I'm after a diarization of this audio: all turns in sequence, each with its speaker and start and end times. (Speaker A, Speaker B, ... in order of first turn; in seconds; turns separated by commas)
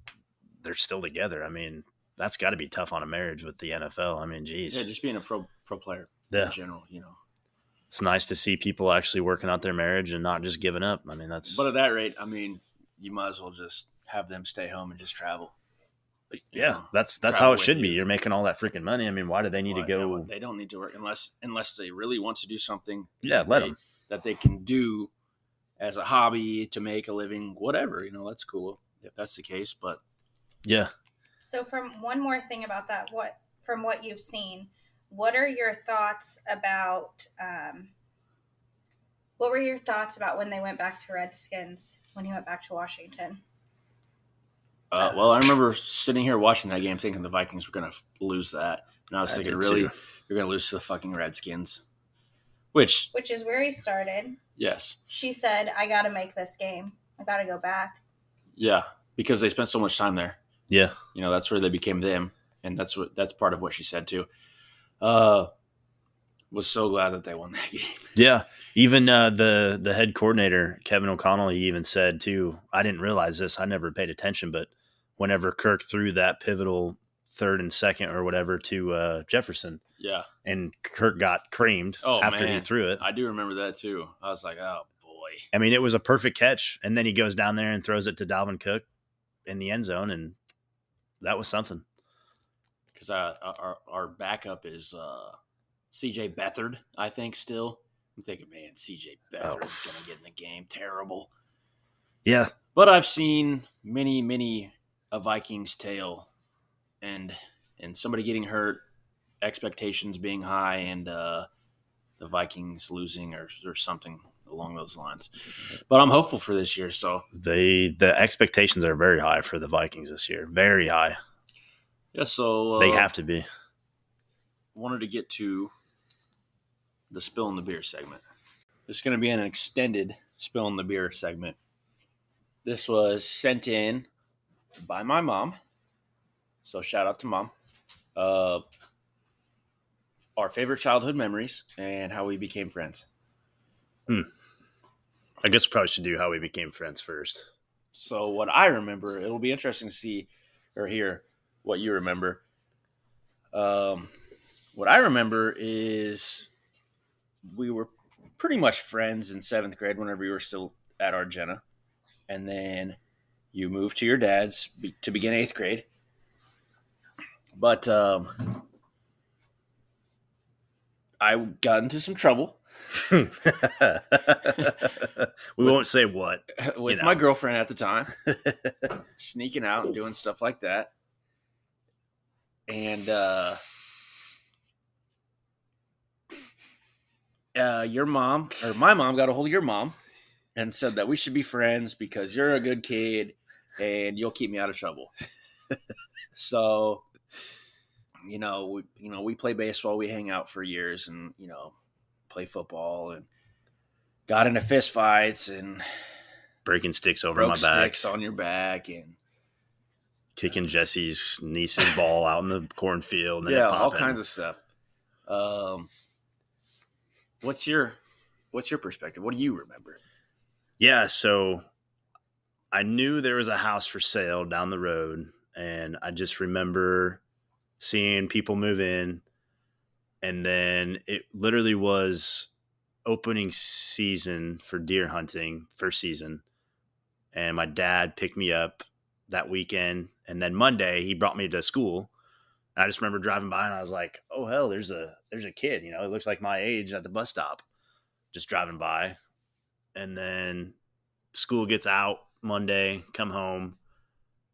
Speaker A: 0.6-4.9, Speaker B: 4.7-7.2, Speaker A: 7.9-11.7, Speaker B: 11.5-15.5, Speaker A: 16.3-20.3, Speaker B: 16.5-18.0, Speaker B: 19.7-25.1, Speaker A: 23.2-23.8, Speaker B: 25.8-30.0, Speaker A: 30.6-30.9, Speaker C: 31.4-37.9, Speaker C: 39.4-43.4, Speaker B: 44.9-51.8, Speaker A: 49.3-49.9, Speaker B: 52.7-53.1, Speaker C: 53.1-54.4, Speaker B: 54.6-55.0, Speaker C: 55.1-58.0, Speaker B: 58.6-60.4, Speaker A: 60.7-61.0, Speaker B: 61.1-64.3, Speaker B: 65.0-65.5, Speaker B: 66.5-68.1, Speaker A: 68.1-79.8, Speaker B: 80.0-80.3, Speaker A: 80.4-83.0, Speaker B: 82.0-85.5, Speaker A: 85.5-88.8, Speaker A: 89.5-90.4, Speaker A: 91.2-91.8, Speaker B: 92.9-95.4, Speaker B: 95.9-101.3, Speaker A: 99.4-99.8, Speaker A: 102.2-102.5, Speaker B: 102.8-106.3, Speaker B: 107.0-108.8, Speaker B: 109.4-111.5, Speaker B: 112.2-117.3, Speaker A: 117.3-121.2, Speaker B: 122.1-123.1, Speaker A: 122.8-123.5, Speaker B: 124.7-125.7, Speaker B: 127.1-128.2, Speaker B: 128.9-131.6, Speaker B: 132.6-134.1, Speaker B: 134.8-135.6, Speaker B: 136.6-137.5, Speaker B: 138.2-138.6, Speaker B: 140.4-143.1, Speaker A: 145.4-147.5, Speaker B: 147.9-152.4, Speaker B: 153.5-154.1, Speaker B: 154.7-156.5, Speaker B: 157.4-161.6, Speaker B: 162.3-163.0, Speaker B: 163.5-165.9, Speaker B: 167.6-168.6, Speaker B: 171.2-172.6, Speaker A: 173.1-177.2, Speaker B: 176.6-178.1, Speaker B: 179.2-180.9, Speaker B: 182.7-183.6, Speaker B: 187.6-190.0, Speaker B: 190.6-195.1, Speaker B: 196.3-197.1, Speaker B: 198.2-201.7, Speaker B: 202.3-203.3, Speaker B: 204.3-205.9, Speaker A: 206.7-208.1, Speaker B: 207.3-209.2, Speaker A: 210.4-214.2, Speaker B: 213.4-214.6, Speaker B: 215.3-215.9, Speaker B: 217.4-218.0, Speaker B: 218.5-220.0, Speaker A: 220.8-221.6, Speaker A: 222.7-227.2, Speaker A: 227.8-229.2, Speaker A: 230.2-232.5, Speaker A: 233.1-236.4, Speaker A: 237.3-242.1, Speaker A: 242.8-247.6, Speaker A: 248.3-249.2, Speaker A: 249.9-250.8, Speaker A: 251.3-253.8